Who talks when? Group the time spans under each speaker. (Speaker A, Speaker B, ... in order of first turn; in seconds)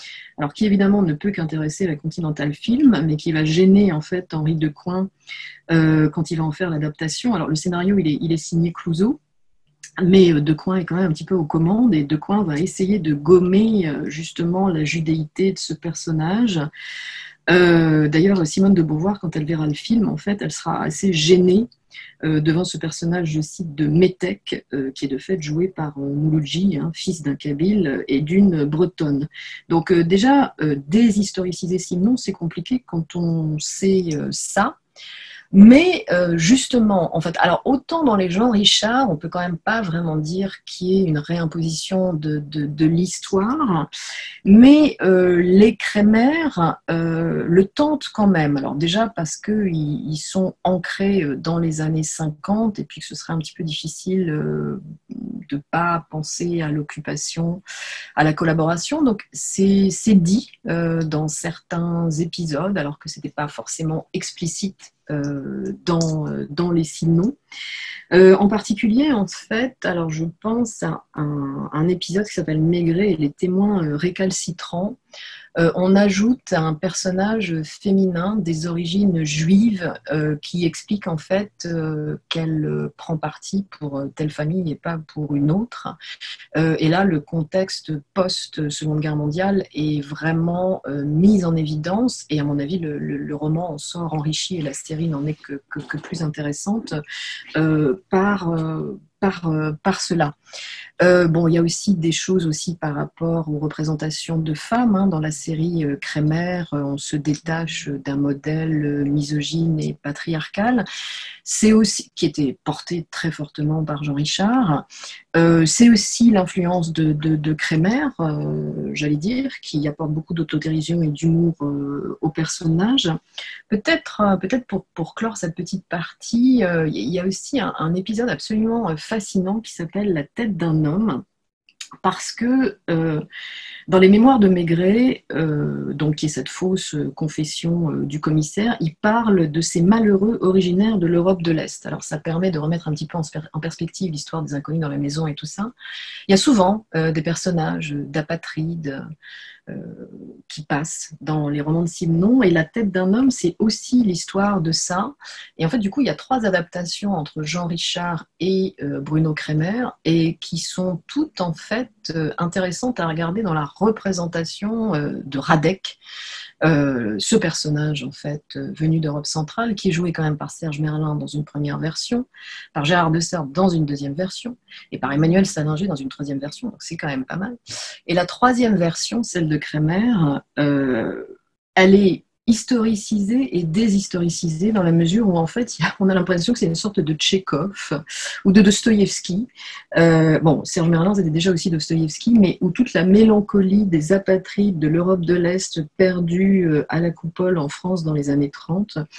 Speaker A: 0.4-5.1, 5.7-9.2, 10.0-16.6, 17.5-21.7, 22.2-34.8, 35.5-43.9, 44.4-57.6, 58.1-67.4, 68.1-75.0, 75.6-86.0, 86.5-97.0, 97.6-100.3, 101.0-110.8, 111.4-123.2, 123.7-131.2, 132.0-133.2, 133.9-145.7, 146.3-149.0, 149.7-166.0, 166.6-199.0